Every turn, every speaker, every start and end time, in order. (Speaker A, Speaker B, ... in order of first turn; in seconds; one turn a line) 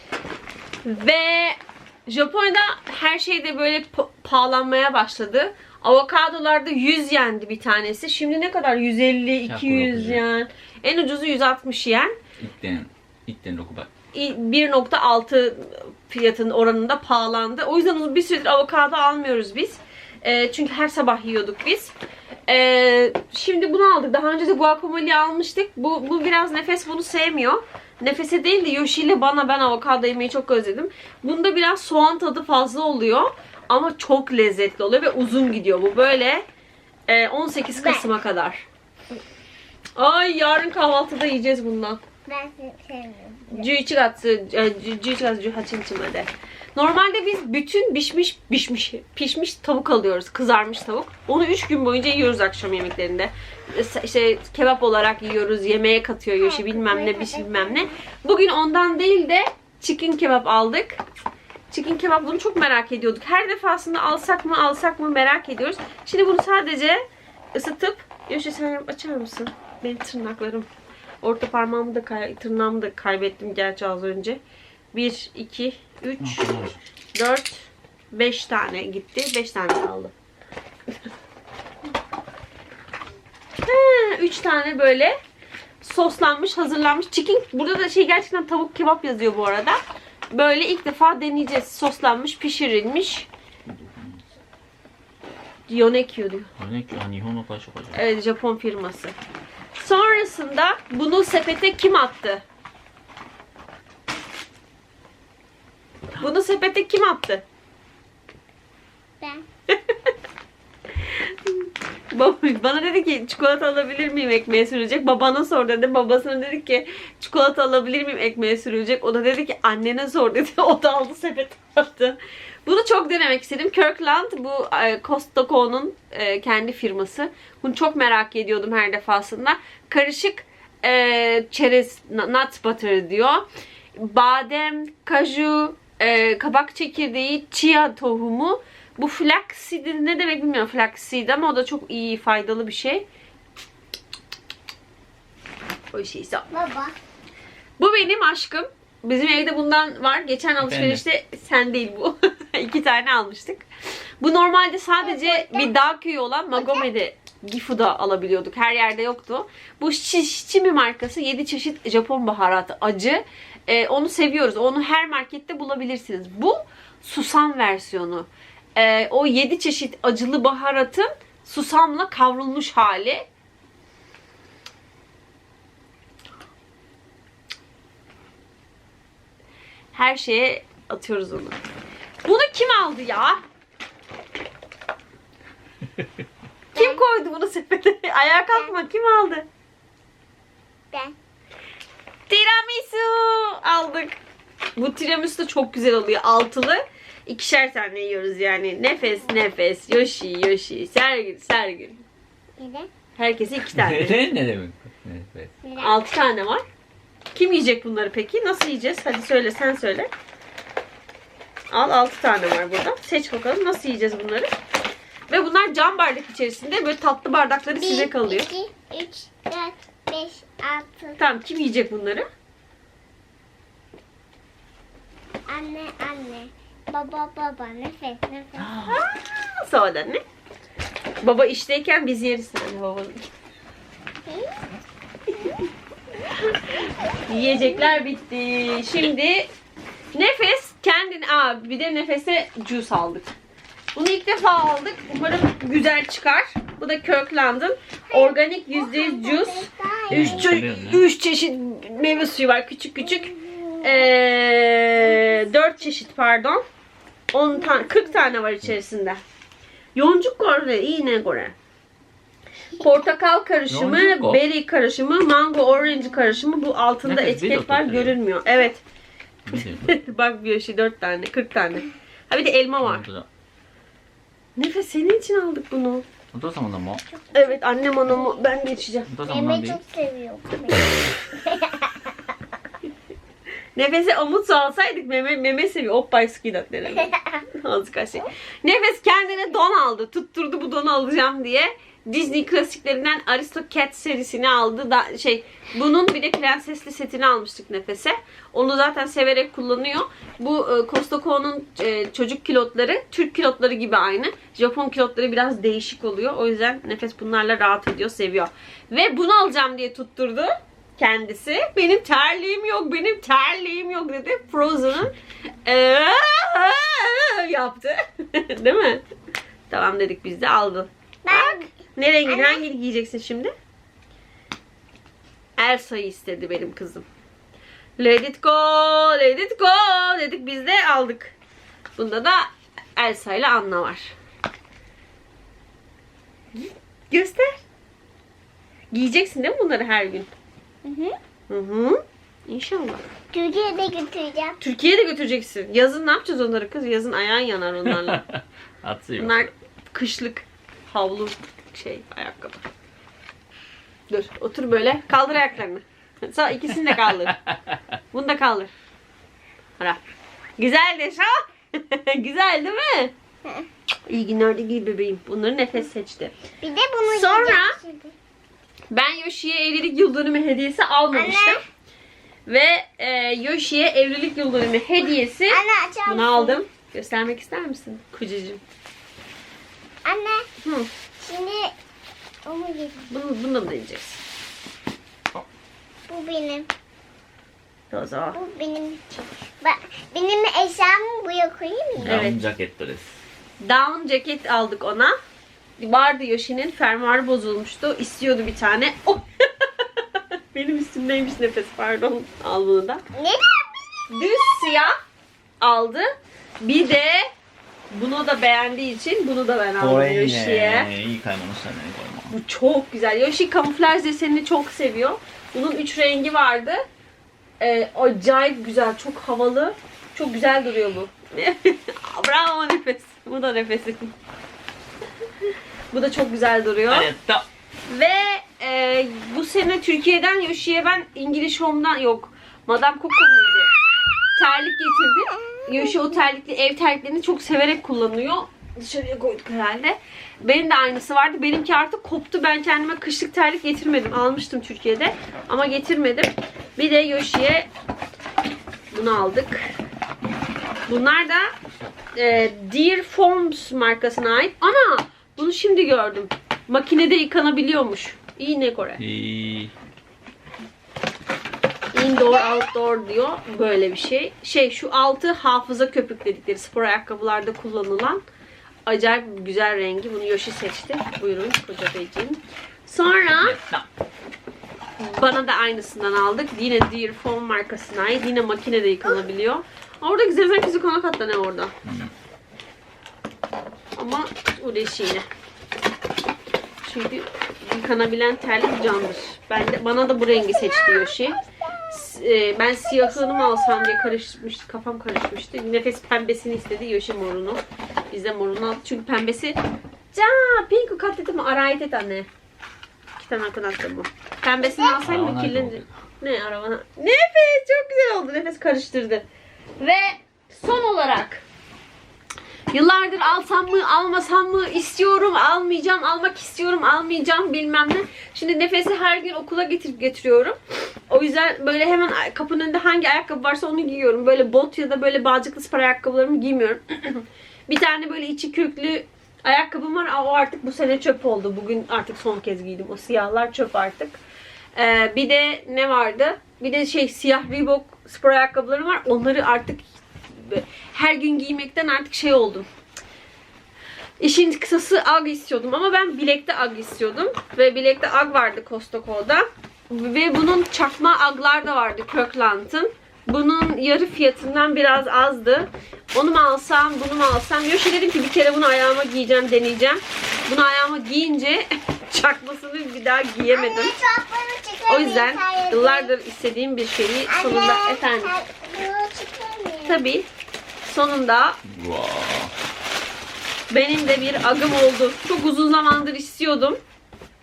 Speaker A: 0.8-12.2
Speaker B: 9.5-10.2
Speaker B: 12.4-13.9
Speaker A: 14.1-21.9
Speaker A: 22.5-36.4
Speaker A: 37.1-38.7
Speaker C: 37.8-38.1
Speaker A: 40.0-42.0
Speaker C: 42.3-43.7
Speaker A: 43.5-61.0
Speaker C: 56.4-57.9
Speaker A: 61.7-67.0
Speaker A: 67.5-70.7
Speaker A: 71.2-74.4
Speaker A: 74.9-76.6
Speaker B: 76.2-76.8
Speaker A: 77.1-80.1
Speaker A: 83.6-85.2
Speaker A: 85.8-89.8
Speaker A: 90.3-93.3
Speaker B: 93.7-94.2
Speaker A: 95.7-96.5
Speaker B: 96.6-98.0
Speaker A: 97.9-99.2
Speaker A: 99.8-102.4
Speaker A: 106.2-107.4
Speaker A: 109.7-110.0
Speaker A: 111.2-143.1
Speaker A: 145.9-146.5
Speaker C: 146.5-147.0
Speaker A: 147.8-153.7
Speaker B: 150.6-151.0
Speaker A: 154.2-173.3
Speaker C: 155.0-155.7
Speaker C: 156.6-156.8
Speaker A: 179.9-181.6
Speaker A: 182.2-183.4
Speaker C: 186.8-187.0
Speaker A: 186.8-189.5
Speaker A: 192.3-194.2
Speaker A: 194.8-202.0
Speaker C: 202.6-202.9
Speaker A: 203.2-204.2
Speaker B: 203.7-205.5
Speaker C: 205.6-206.0
Speaker A: 205.8-206.6
Speaker A: 207.3-210.1
Speaker A: 211.7-214.5
Speaker A: 215.3-218.5
Speaker C: 217.8-221.2
Speaker A: 221.2-222.3
Speaker C: 225.5-228.8
Speaker B: 228.6-229.0
Speaker A: 228.8-230.2
Speaker A: 231.2-233.3
Speaker C: 234.3-234.8
Speaker A: 237.1-239.5
Speaker A: 240.1-243.4
Speaker A: 243.9-256.6
Speaker C: 248.1-250.5
Speaker B: 250.1-251.1
Speaker C: 253.1-254.0
Speaker A: 257.3-259.2
Speaker A: 259.9-261.6
Speaker A: 262.8-268.8
Speaker B: 263.7-264.4
Speaker B: 267.1-268.2
Speaker B: 269.4-270.0
Speaker A: 269.5-273.1
Speaker B: 272.8-273.3
Speaker A: 274.6-276.1
Speaker B: 276.3-277.0
Speaker C: 277.2-278.7
Speaker A: 277.3-279.1
Speaker B: 279.1-279.8
Speaker C: 279.2-282.1
Speaker A: 283.8-315.1
Speaker A: 315.7-319.0
Speaker A: 319.7-323.5
Speaker C: 321.2-321.8
Speaker C: 322.3-322.6
Speaker A: 325.6-327.1
Speaker A: 328.0-331.3
Speaker A: 332.0-334.1
Speaker A: 336.5-337.6
Speaker A: 338.9-340.3
Speaker C: 340.9-341.2
Speaker A: 341.5-343.0
Speaker C: 343.3-344.6
Speaker A: 344.6-348.2
Speaker B: 347.9-349.5
Speaker A: 349.2-352.7
Speaker A: 354.1-357.4
Speaker B: 356.9-357.7
Speaker A: 358.1-358.7
Speaker A: 360.6-363.1
Speaker A: 364.1-366.4
Speaker C: 366.6-368.1
Speaker A: 367.1-367.8
Speaker A: 368.9-371.6
Speaker C: 371.1-371.6
Speaker A: 372.5-378.6
Speaker C: 375.5-376.6
Speaker C: 380.1-380.5
Speaker A: 380.6-380.9
Speaker C: 381.2-381.7
Speaker C: 382.5-383.1
Speaker A: 383.1-384.2
Speaker C: 386.1-386.7
Speaker A: 387.9-388.4
Speaker C: 388.3-392.2
Speaker B: 392.0-393.2
Speaker A: 392.1-392.4
Speaker A: 393.6-395.1
Speaker A: 395.8-399.7
Speaker A: 400.5-403.0
Speaker C: 403.1-403.8
Speaker A: 404.1-404.9
Speaker A: 405.6-406.1
Speaker A: 406.6-407.3
Speaker A: 407.9-410.9
Speaker B: 409.8-412.4
Speaker A: 412.3-416.8
Speaker A: 417.6-424.1
Speaker A: 425.9-427.1
Speaker B: 426.9-427.5
Speaker A: 427.9-433.7
Speaker A: 434.4-447.7
Speaker A: 448.9-449.8
Speaker A: 450.9-451.5
Speaker A: 452.1-459.0
Speaker B: 459.0-459.7
Speaker A: 461.9-468.2
Speaker A: 468.9-473.6
Speaker B: 473.4-473.9
Speaker A: 475.0-481.7
Speaker B: 481.8-482.1
Speaker A: 483.9-485.3
Speaker A: 486.8-499.6
Speaker C: 490.5-491.3
Speaker C: 493.4-493.8
Speaker A: 500.1-502.3
Speaker A: 503.2-509.2
Speaker C: 504.7-505.0
Speaker B: 505.0-505.9
Speaker A: 509.8-511.4
Speaker A: 512.7-520.6
Speaker A: 521.1-534.2
Speaker A: 534.8-542.7
Speaker A: 544.2-563.9
Speaker C: 563.5-566.1
Speaker A: 564.9-568.4
Speaker C: 567.3-570.0
Speaker A: 569.9-570.3
Speaker A: 570.9-571.6
Speaker B: 571.7-572.5
Speaker A: 573.7-576.8